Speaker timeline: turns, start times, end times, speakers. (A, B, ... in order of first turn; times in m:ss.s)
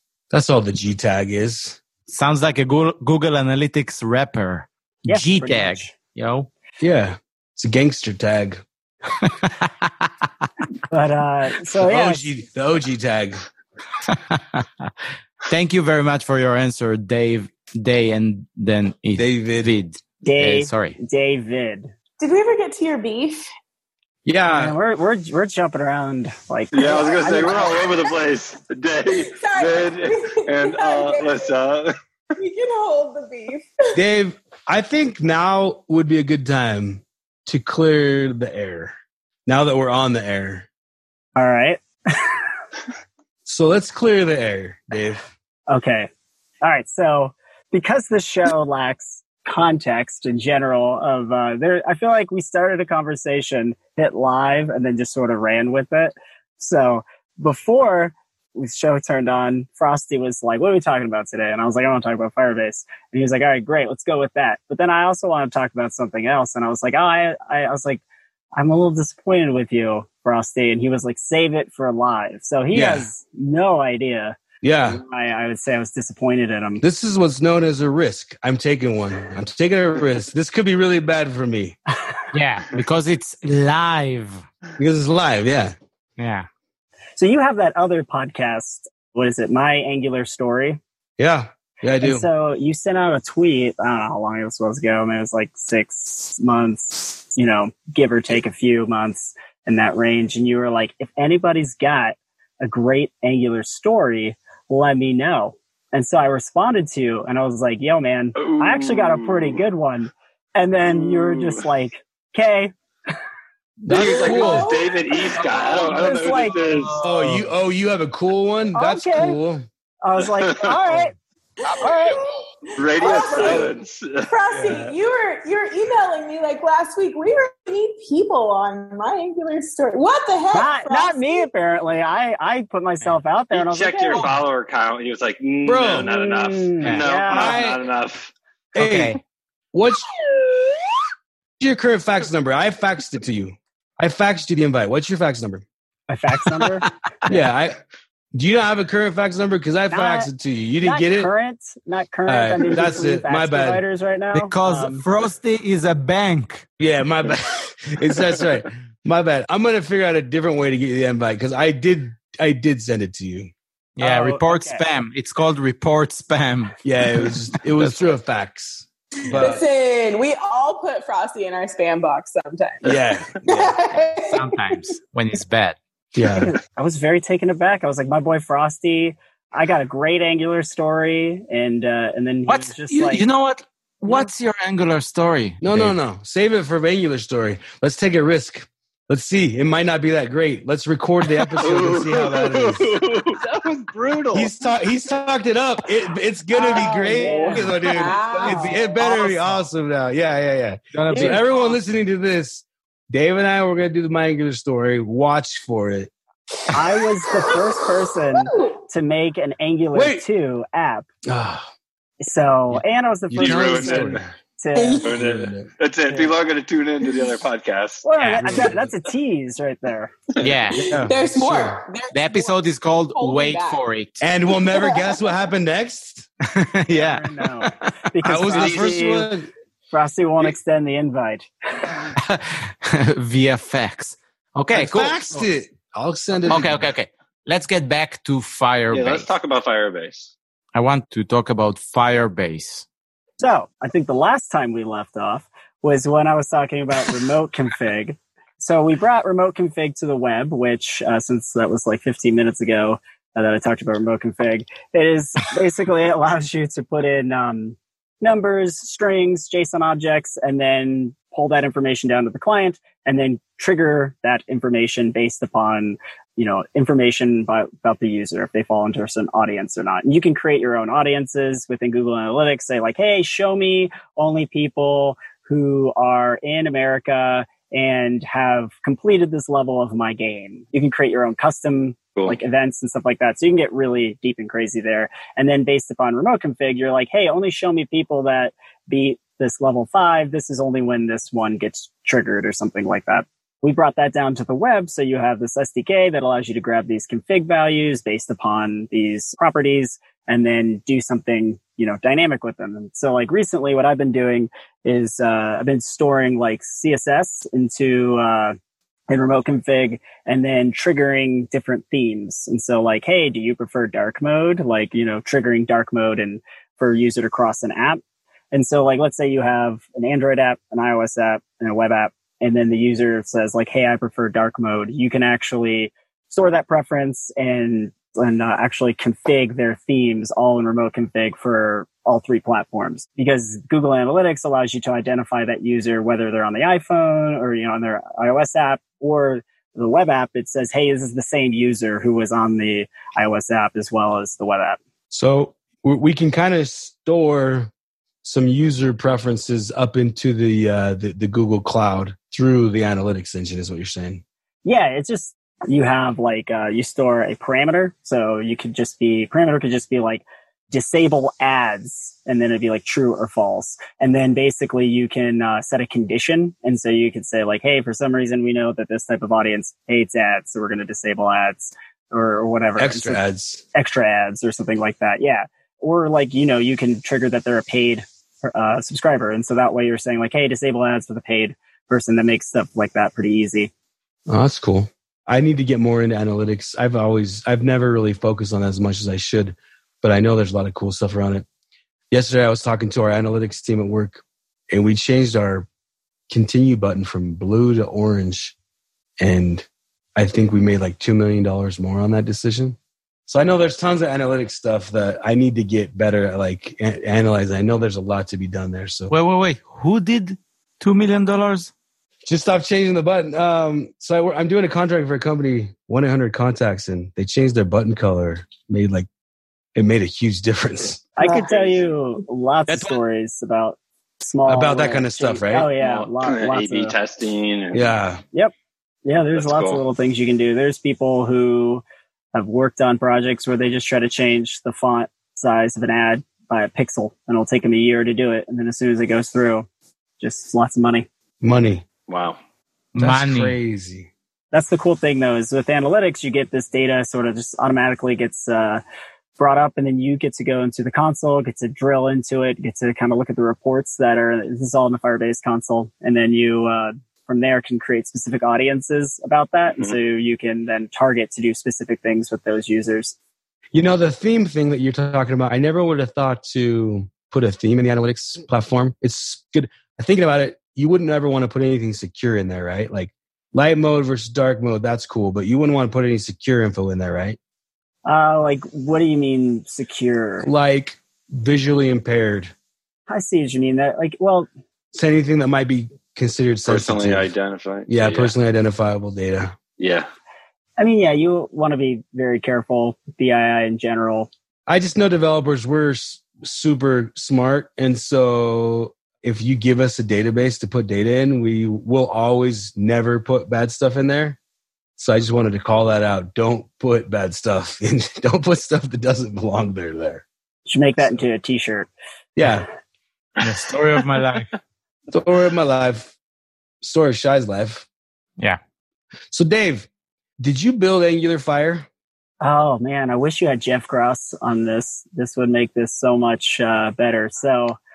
0:00.3-0:01.8 A
0:02.1-0:06.5 B
0:05.0-0:05.9 C
0:06.8-0:08.6 A
0:09.2-0:10.1 B
0:10.9-0:12.3 C
0:11.8-0:13.4 A
0:14.1-0:14.9 B
0:15.5-0:21.0 B
0:19.2-0:19.7 A
0:20.2-0:21.9 C
0:22.2-0:23.4 D
0:24.2-0:24.7 A
0:24.5-0:27.8 C
0:26.7-0:31.9 E
0:29.1-0:31.5 D
0:32.4-0:34.0 D
0:33.9-0:38.9 A
0:39.4-0:40.7 A
0:41.4-0:42.4 C
0:43.4-0:45.2 A
0:45.7-0:46.1 C
0:46.6-1:08.0 C
1:08.6-1:16.8 C
1:12.7-1:13.1 A
1:14.6-1:15.0 A
1:16.8-1:21.8 A
1:22.3-1:24.4 B
1:24.8-1:25.7 A
1:26.2-1:26.4 B
1:27.2-1:30.8 C
1:31.2-1:32.2 A
1:32.0-1:52.7 C
1:48.4-1:49.6 E
1:50.8-1:51.6 E
1:53.8-1:54.7 A
1:53.9-1:57.0 E
1:54.0-1:55.8 D
1:55.4-1:57.4 B
1:55.8-1:56.6 C
1:57.0-1:59.6 A
1:58.7-1:59.4 C
2:00.0-2:01.1 C
2:00.4-2:00.8 E
2:01.6-2:02.2 C
2:01.7-2:02.2 D
2:02.8-2:04.3 E
2:02.9-2:03.7 D
2:03.0-2:03.7 C
2:04.3-2:11.4 D
2:04.5-2:04.9 A
2:10.5-2:14.2 C
2:13.5-2:18.3 E
2:14.1-2:14.4 B
2:15.6-2:16.1 A
2:16.0-2:17.6 C
2:17.2-2:17.8 A
2:18.7-2:19.2 A
2:18.8-2:19.2 B
2:19.7-2:20.7 A
2:21.6-2:25.6 A
2:26.1-2:26.9 C
2:27.3-2:27.8 A
2:28.3-2:31.3 A
2:29.9-2:30.3 C
2:30.8-2:35.0 C
2:32.3-2:33.8 A
2:34.3-2:36.6 B
2:36.8-2:43.5 A
2:44.0-2:48.0 B
2:44.0-2:44.8 C
2:46.8-2:49.6 A
2:49.2-2:52.9 D
2:52.8-2:53.8 A
2:53.4-2:54.8 D
2:54.2-2:55.8 B
2:56.1-2:56.5 A
2:56.4-3:03.2 C
3:02.5-3:06.0 B
3:05.6-3:13.0 A
3:11.3-3:14.5 E
3:14.3-3:26.1 A
3:16.5-3:19.3 D
3:16.7-3:18.0 C
3:26.7-3:31.1 C
3:28.3-3:28.8 D
3:29.9-3:30.2 A
3:31.2-3:31.7 A
3:32.2-3:35.0 C
3:33.3-3:34.3 A
3:33.4-3:34.2 E
3:34.7-3:35.0 D
3:35.0-3:35.7 A
3:35.0-3:38.0 E
3:38.0-3:40.1 C
3:38.2-3:38.7 B
3:38.4-3:38.9 A
3:40.4-3:41.0 B
3:40.7-3:41.8 A
3:40.7-3:43.8 D
3:42.1-3:44.2 B
3:44.2-3:46.3 A
3:44.6-3:45.2 D
3:46.5-3:47.9 B
3:46.9-3:49.3 C
3:48.2-3:49.5 A
3:48.6-3:48.8 E
3:49.9-3:51.5 C
3:52.2-3:55.2 B
3:54.7-3:56.9 A
3:56.5-3:59.3 B
3:58.9-4:00.3 E
4:00.7-4:02.8 B
4:03.4-5:08.6 C
5:09.1-5:18.0 C
5:18.5-5:44.8 C
5:45.1-5:47.7 A
5:48.2-5:54.2 A
5:54.6-6:13.2 C
6:12.8-6:13.6 A
6:13.7-6:23.7 C
6:24.3-6:31.4 A
6:32.1-6:35.7 A
6:36.3-6:38.5 A
6:39.2-6:39.6 A
6:40.2-6:49.1 A
6:49.1-6:51.7 B
6:52.2-6:59.1 A
6:59.7-7:01.0 A
7:01.2-7:06.9 C
7:01.2-7:01.9 E
7:02.7-7:03.0 B
7:04.4-7:05.7 A
7:05.8-7:07.9 E
7:07.7-7:08.2 A
7:09.0-7:19.6 C
7:09.4-7:09.8 E
7:20.2-7:21.0 C
7:21.4-7:21.8 A
7:22.1-7:22.4 E
7:22.9-7:23.6 B
7:23.0-7:24.1 A
7:24.5-7:28.8 C
7:29.4-7:43.1 C
7:43.7-7:57.4 A
7:58.0-8:00.5 C
8:00.4-8:02.5 A
8:03.1-8:04.5 C
8:04.9-8:07.3 A
8:06.6-8:08.3 E
8:07.9-8:09.6 A
8:09.8-8:10.1 E
8:10.8-8:14.3 C
8:14.7-8:24.4 A
8:25.0-8:30.2 A
8:30.7-8:31.9 C
8:32.4-8:32.6 A
8:33.4-8:34.5 B
8:35.1-8:36.1 A
8:36.8-8:37.8 A
8:39.3-8:39.9 A
8:40.4-8:41.9 A
8:42.4-8:47.8 C